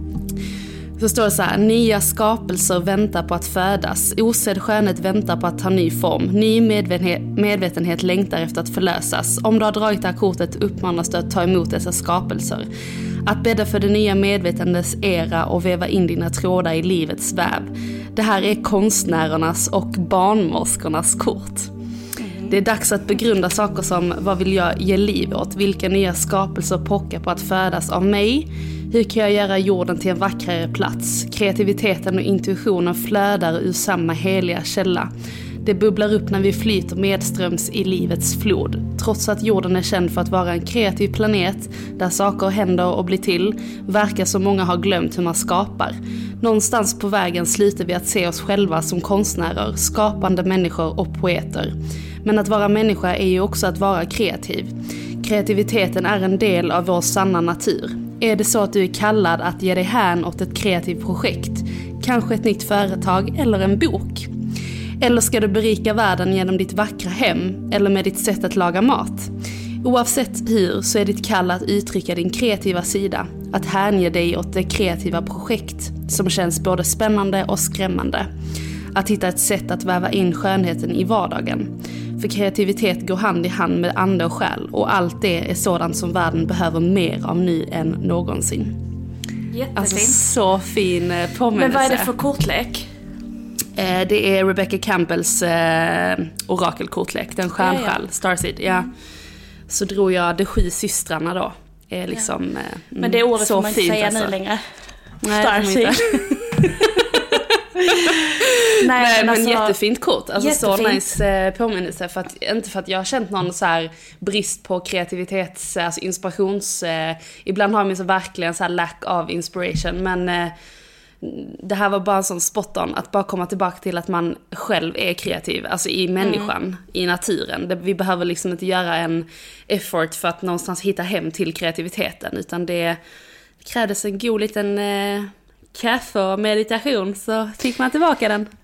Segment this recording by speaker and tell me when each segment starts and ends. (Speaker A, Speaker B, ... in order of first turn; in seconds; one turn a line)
Speaker A: 1.0-12.7
Speaker A: 13.2-21.7
Speaker B: 22.2-22.6
Speaker A: 22.5-35.1
Speaker A: 35.6-64.3
Speaker A: 65.0-69.3
Speaker A: 69.8-78.3
Speaker A: 78.9-88.8
Speaker B: 89.5-90.2
Speaker A: 89.8-92.1
Speaker B: 91.5-92.8
Speaker A: 93.8-98.9
Speaker B: 97.6-98.0
Speaker A: 99.7-104.3
Speaker B: 103.0-104.6
Speaker A: 105.2-107.2
Speaker B: 105.3-107.2
Speaker B: 107.8-108.2
Speaker A: 108.4-120.5
Speaker B: 108.8-109.8
Speaker B: 110.4-111.1
Speaker A: 121.2-133.0
Speaker B: 126.2-126.5
Speaker A: 133.6-138.5